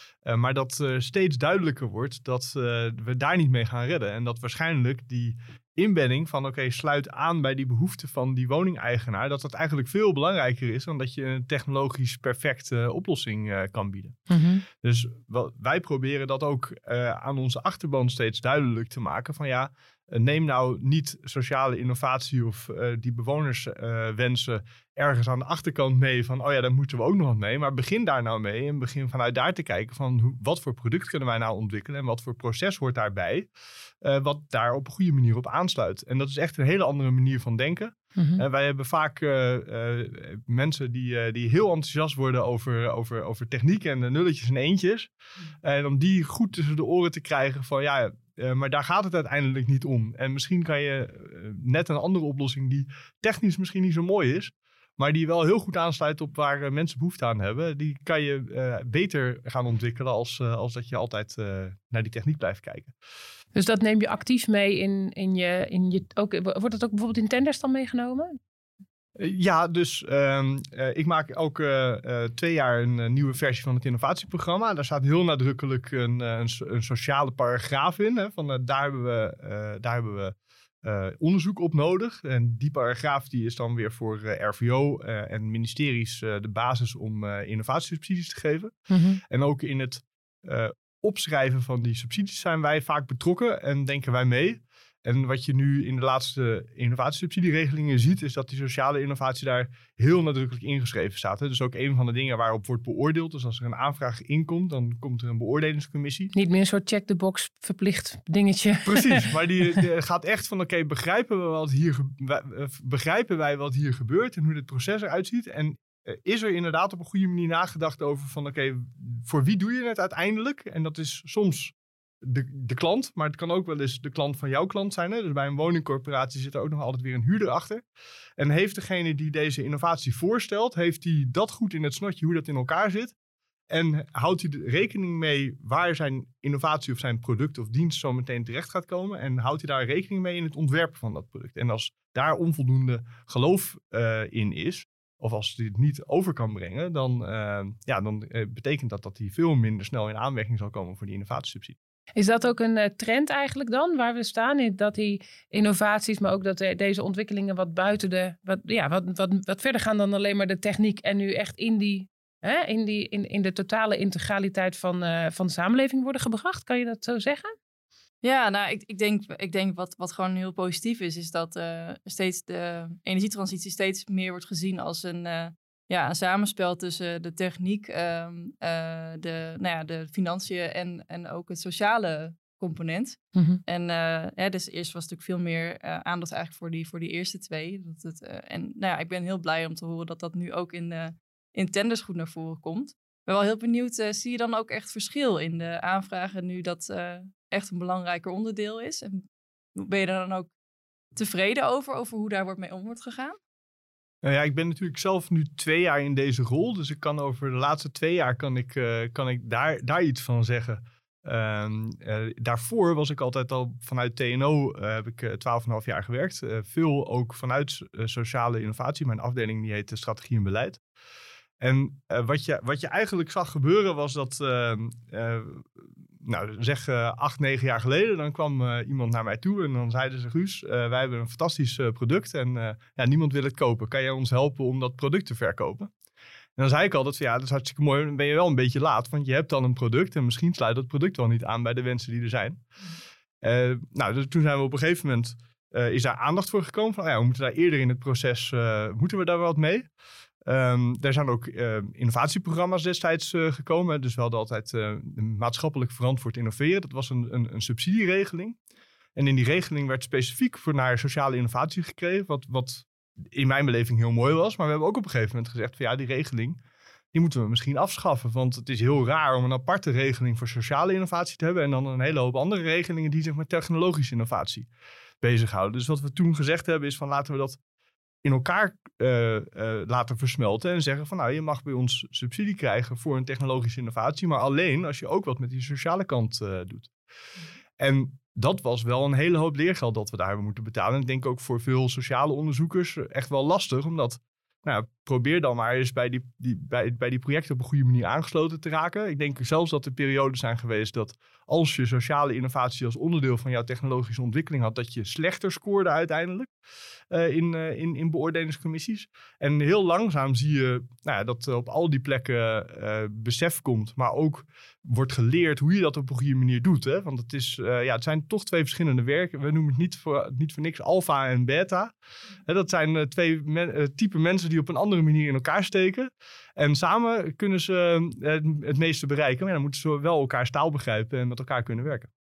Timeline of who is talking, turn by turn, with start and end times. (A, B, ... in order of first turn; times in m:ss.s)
0:00.2-0:33.5 A
0:14.3-0:14.6 B
0:34.0-0:45.1 A
0:38.2-0:38.4 B
0:45.6-1:02.9 A
1:03.6-1:08.4 B
1:09.2-1:46.3 A
1:28.9-1:29.2 B
1:46.3-1:49.3 B
1:48.9-2:07.8 A
2:08.4-2:13.2 A
2:13.7-2:31.8 A
2:32.2-2:47.6 B
2:48.2-3:19.3 C
3:03.4-3:03.6 B
3:19.8-3:20.5 C
3:21.2-3:23.4 C
3:24.2-3:40.8 A
3:41.6-3:55.9 A
3:56.6-4:02.6 A
4:03.4-4:09.9 A
4:10.4-4:18.6 A
4:19.2-4:26.6 A
4:27.1-4:34.7 A
4:35.2-4:37.6 A
4:38.2-4:46.9 A
4:47.8-5:06.5 A
5:07.1-5:21.9 A
5:22.5-5:32.1 A